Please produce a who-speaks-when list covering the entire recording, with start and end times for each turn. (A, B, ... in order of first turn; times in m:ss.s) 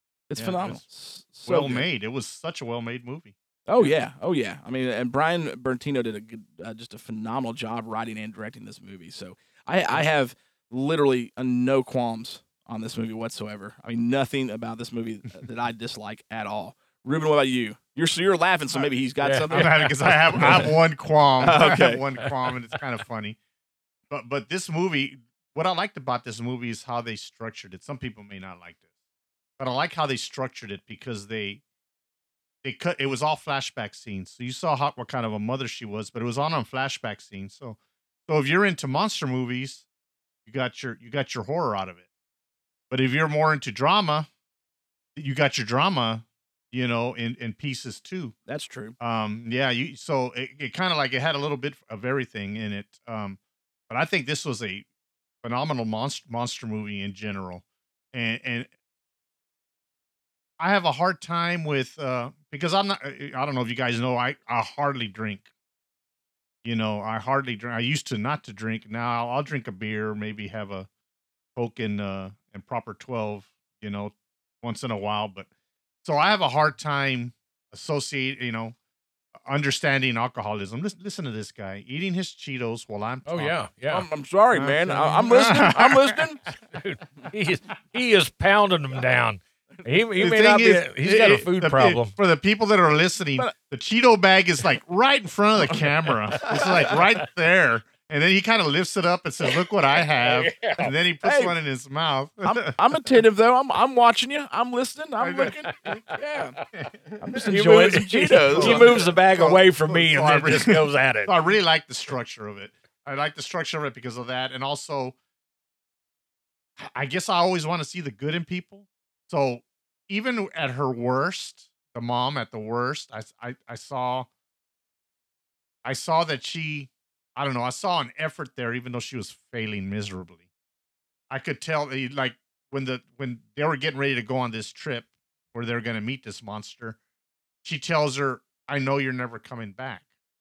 0:00.3-0:01.9 A
0:00.4-0:00.8 B
0:01.4-0:03.9 B
0:03.7-0:19.8 A
0:19.2-0:20.7 C
0:19.5-0:23.4 B
0:21.4-0:22.0 A
0:22.2-0:22.5 C
0:24.1-0:28.9 B
0:29.6-0:31.6 B
0:32.6-0:39.8 B
0:40.4-0:42.0 B
0:42.9-0:44.3 B
0:45.2-0:48.3 B
0:48.5-0:49.0 A
0:49.0-0:54.8 B
0:55.4-0:58.7 B
1:00.6-1:05.5 B
1:06.6-1:10.9 B
1:11.6-1:15.5 B
1:16.0-1:18.8 B
1:19.4-1:23.5 B
1:23.2-1:24.1 C
1:23.9-1:26.4 A
1:24.5-1:26.2 B
1:26.5-1:32.1 C
1:30.2-1:43.1 B
1:35.7-1:37.0 C
1:40.2-1:40.9 C
1:41.2-1:41.5 A
1:42.4-1:46.6 A
1:45.2-1:46.0 B
1:45.8-1:46.2 C
1:47.2-1:49.1 A
1:47.4-1:51.3 C
1:48.5-1:55.2 B
1:56.8-2:04.3 B
2:05.8-2:10.4 B
2:11.3-2:17.0 B
2:17.6-2:20.0 B